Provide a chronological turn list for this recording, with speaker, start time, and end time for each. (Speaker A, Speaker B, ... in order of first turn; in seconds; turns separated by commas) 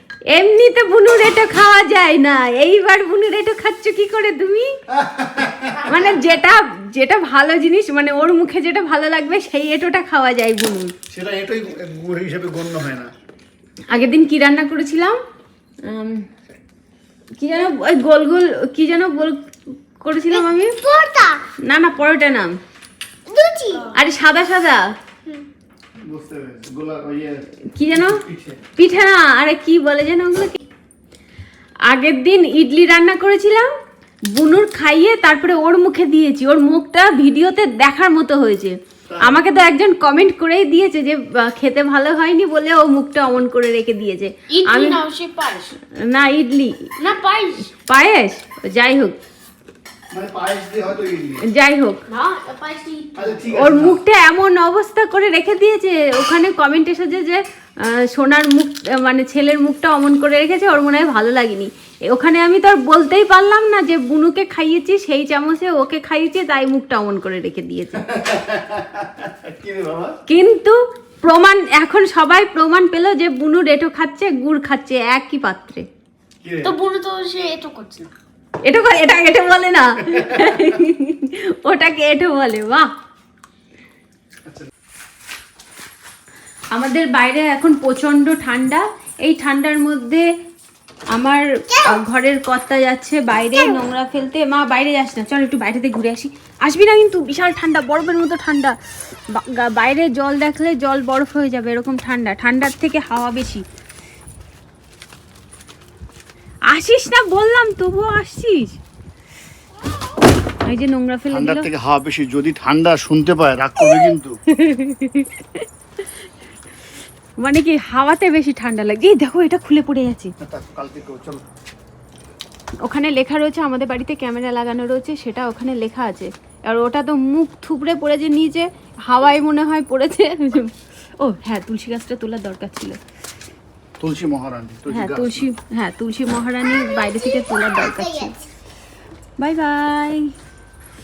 Speaker A: 0.3-4.7, Speaker B: 4.9-6.1, Speaker A: 5.8-10.9, Speaker B: 11.1-13.1, Speaker A: 13.9-15.2, Speaker A: 15.8-16.2, Speaker A: 17.4-20.8, Speaker C: 20.8-21.4, Speaker A: 21.6-22.6, Speaker C: 23.3-23.9, Speaker A: 23.8-24.9, Speaker B: 26.1-28.6, Speaker A: 27.7-28.2, Speaker A: 28.8-30.6, Speaker A: 31.9-33.7, Speaker A: 34.3-45.0, Speaker B: 39.1-39.4, Speaker D: 44.5-45.8, Speaker A: 45.9-46.9, Speaker D: 47.0-47.7, Speaker A: 47.8-49.2, Speaker B: 50.1-51.5, Speaker A: 51.5-52.0, Speaker D: 52.1-53.4, Speaker B: 53.1-54.0, Speaker A: 53.5-68.0, Speaker B: 67.9-70.2, Speaker A: 70.3-75.8, Speaker B: 76.4-76.7, Speaker D: 76.6-78.1, Speaker A: 78.6-82.9, Speaker B: 80.1-80.7, Speaker A: 86.7-90.3, Speaker A: 91.1-103.7, Speaker C: 91.7-92.0, Speaker A: 106.7-108.8, Speaker A: 110.6-111.7, Speaker B: 111.3-114.4, Speaker A: 113.8-115.7, Speaker A: 117.4-120.3, Speaker B: 120.4-121.4, Speaker A: 122.8-133.0, Speaker B: 134.0-135.4, Speaker A: 134.9-138.4, Speaker C: 136.8-138.4, Speaker A: 139.4-140.3